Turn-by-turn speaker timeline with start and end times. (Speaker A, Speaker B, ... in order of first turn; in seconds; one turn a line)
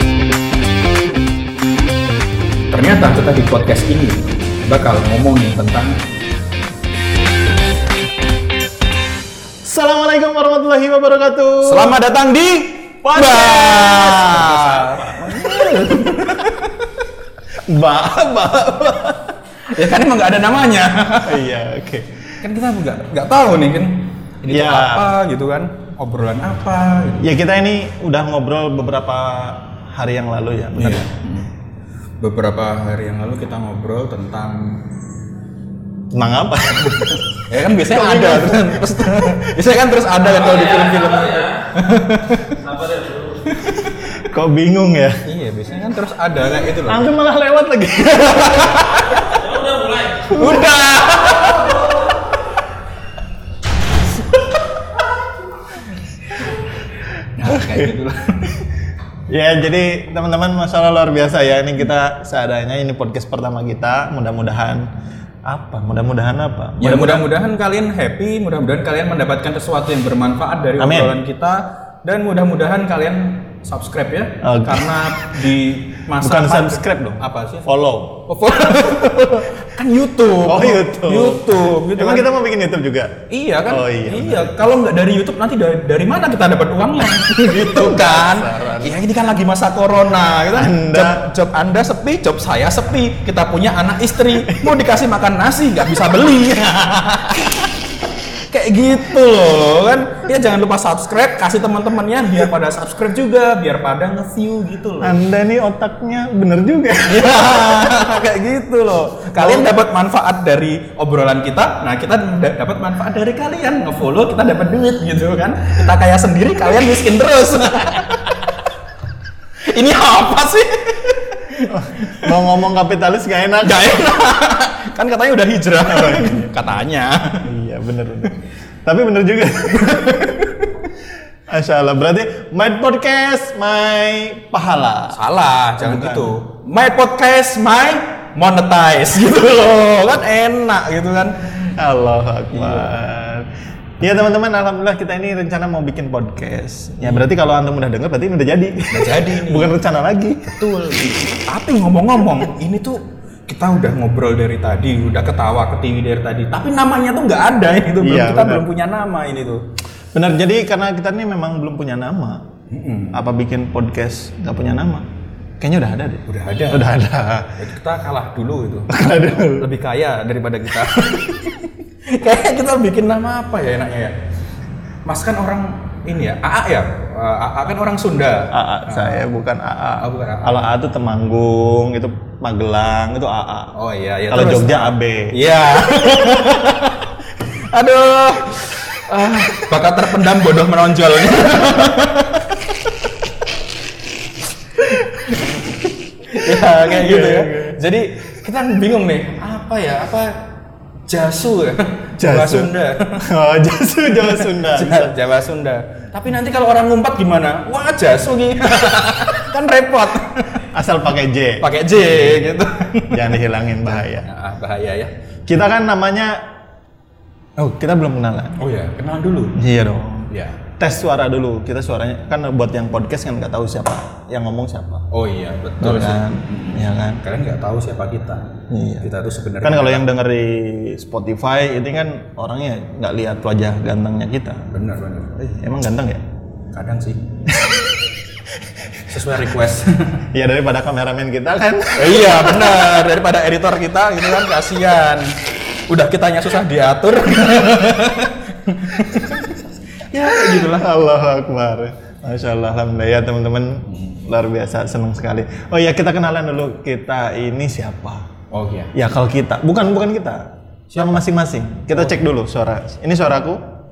Speaker A: 2.7-6.0
Speaker B: 9.6-12.0
Speaker A: 11.6-17.0
Speaker B: 13.0-16.4
Speaker B: 17.6-19.3
Speaker A: 19.6-21.4
Speaker B: 21.2-22.2
Speaker A: 22.4-27.3
Speaker B: 24.5-25.1
Speaker B: 27.2-31.1
Speaker A: 30.7-31.5
Speaker A: 32.2-34.9
Speaker B: 36.1-38.9
Speaker A: 36.8-44.1
Speaker B: 44.2-45.2
Speaker A: 45.2-47.1
Speaker B: 46.7-49.0
Speaker A: 48.2-52.0
Speaker A: 57.4-58.6
Speaker B: 57.4-57.9
Speaker B: 59.3-64.9
Speaker B: 65.5-67.3
Speaker A: 66.8-77.7
Speaker B: 70.8-71.2
Speaker B: 74.4-75.5
Speaker B: 76.2-78.3
Speaker A: 78.3-82.3
Speaker B: 80.4-84.6
Speaker A: 83.3-97.8
Speaker B: 87.6-89.0
Speaker B: 90.5-91.3
Speaker B: 94.5-94.8
Speaker A: 98.3-105.2
Speaker B: 105.0-108.0
Speaker A: 107.0-118.6
Speaker B: 109.3-109.8
Speaker A: 119.6-122.3
Speaker B: 121.6-124.1
Speaker A: 123.6-127.5
Speaker B: 125.8-126.7
Speaker B: 127.4-130.5
Speaker A: 129.8-130.8
Speaker B: 131.5-135.2
Speaker A: 135.1-141.6
Speaker B: 135.8-136.3
Speaker B: 141.6-143.5
Speaker A: 142.5-142.9
Speaker B: 144.0-150.6
Speaker A: 147.0-147.3
Speaker A: 148.9-149.7
Speaker A: 150.5-159.6
Speaker B: 158.0-158.7
Speaker B: 160.1-162.5
Speaker A: 162.7-163.2
Speaker B: 163.1-165.1
Speaker B: 165.6-167.6
Speaker A: 166.3-166.9
Speaker A: 167.6-174.1
Speaker B: 168.9-169.7
Speaker A: 175.1-179.2
Speaker B: 178.5-183.7
Speaker A: 180.0-180.6
Speaker A: 183.7-193.1
Speaker B: 184.3-185.4
Speaker A: 194.9-195.7
Speaker A: 196.2-200.3
Speaker B: 196.3-197.8
Speaker A: 201.1-203.2
Speaker B: 202.2-205.2
Speaker A: 204.1-210.6
Speaker B: 210.7-214.3
Speaker A: 211.6-213.4
Speaker A: 214.2-215.1
Speaker B: 215.5-216.4
Speaker B: 217.6-218.6
Speaker A: 218.6-219.6
Speaker B: 219.5-225.1
Speaker A: 220.3-220.6
Speaker A: 225.1-230.0
Speaker B: 225.8-227.2
Speaker B: 228.7-229.1
Speaker B: 229.6-234.7
Speaker A: 234.7-235.4
Speaker B: 235.4-236.2
Speaker A: 236.7-237.2
Speaker B: 237.5-238.0
Speaker A: 239.1-240.2
Speaker B: 240.3-243.0
Speaker A: 241.9-250.9
Speaker B: 250.1-258.2
Speaker A: 253.9-254.2
Speaker A: 258.5-258.9
Speaker B: 258.9-263.6
Speaker A: 260.9-261.2